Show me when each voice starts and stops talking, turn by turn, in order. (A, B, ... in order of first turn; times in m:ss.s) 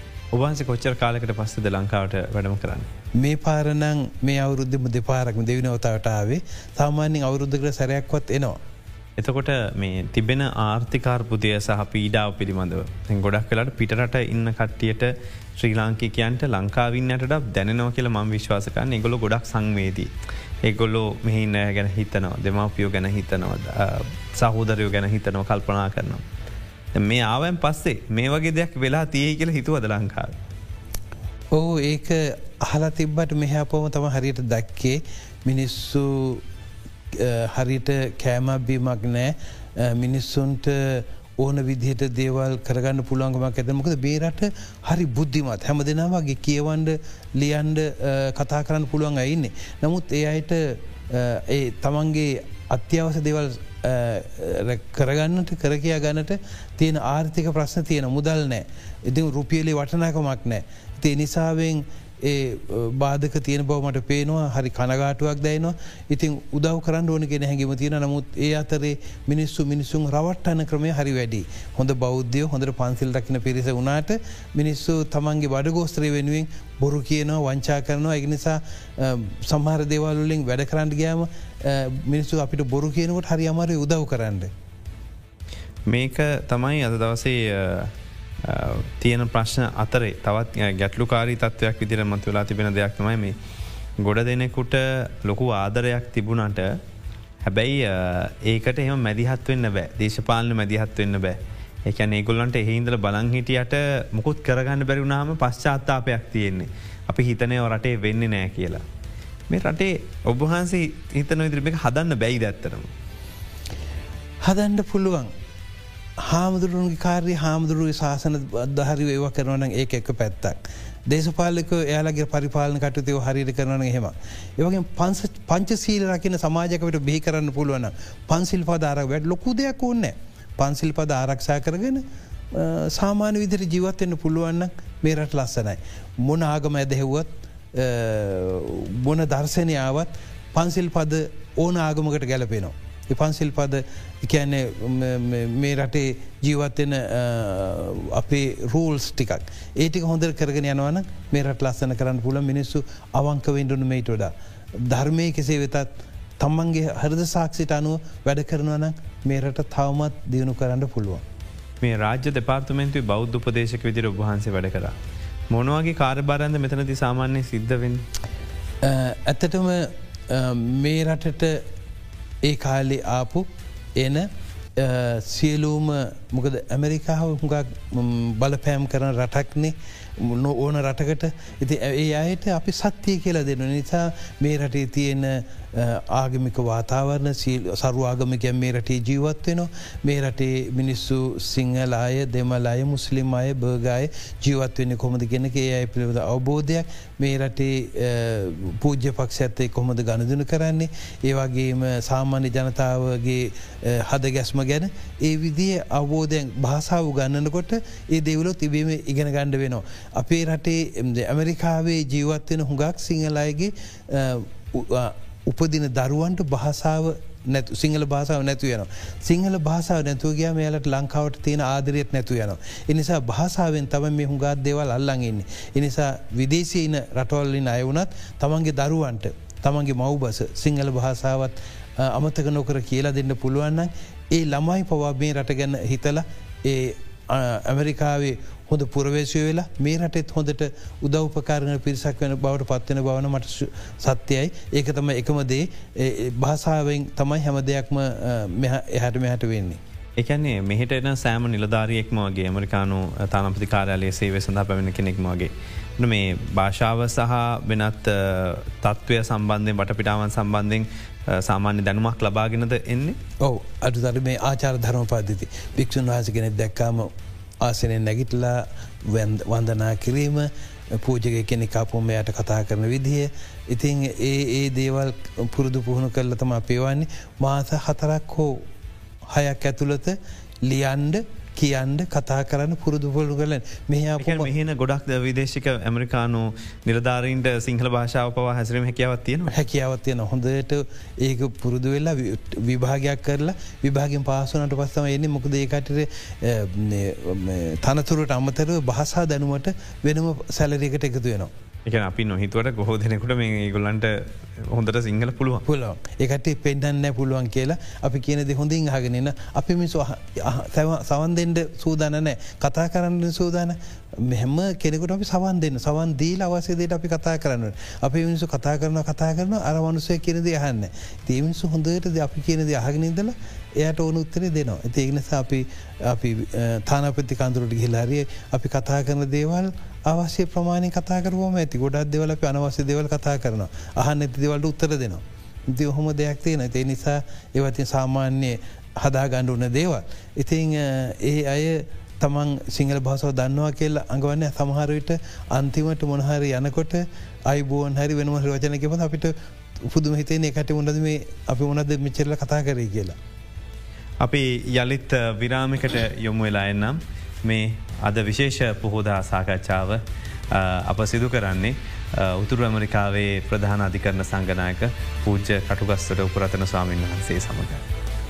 0:00.3-0:02.9 A
0:03.2-0:08.6 B
0:09.2-0:20.1 A
0:20.6-0:26.2 A
0:26.9-0:30.3 A
0:31.5-0:36.4 B
0:37.1-1:24.5 B
1:25.9-1:27.9 A
1:28.4-1:33.4 A
1:34.0-1:36.8 A
1:37.4-1:48.8 A
1:49.5-1:52.9 A
1:54.4-1:55.3 B
1:56.2-2:41.2 B
2:41.8-2:44.9 A
2:45.5-2:48.0 A
2:48.8-2:51.6 B
2:52.4-4:09.8 B
4:10.2-4:23.2 A
4:23.4-4:38.7 B
4:39.2-4:44.5 B
4:44.2-4:49.5 A
4:49.5-5:01.5 B
5:01.8-5:05.6 A
5:05.6-5:53.2 B
5:54.2-6:07.8 A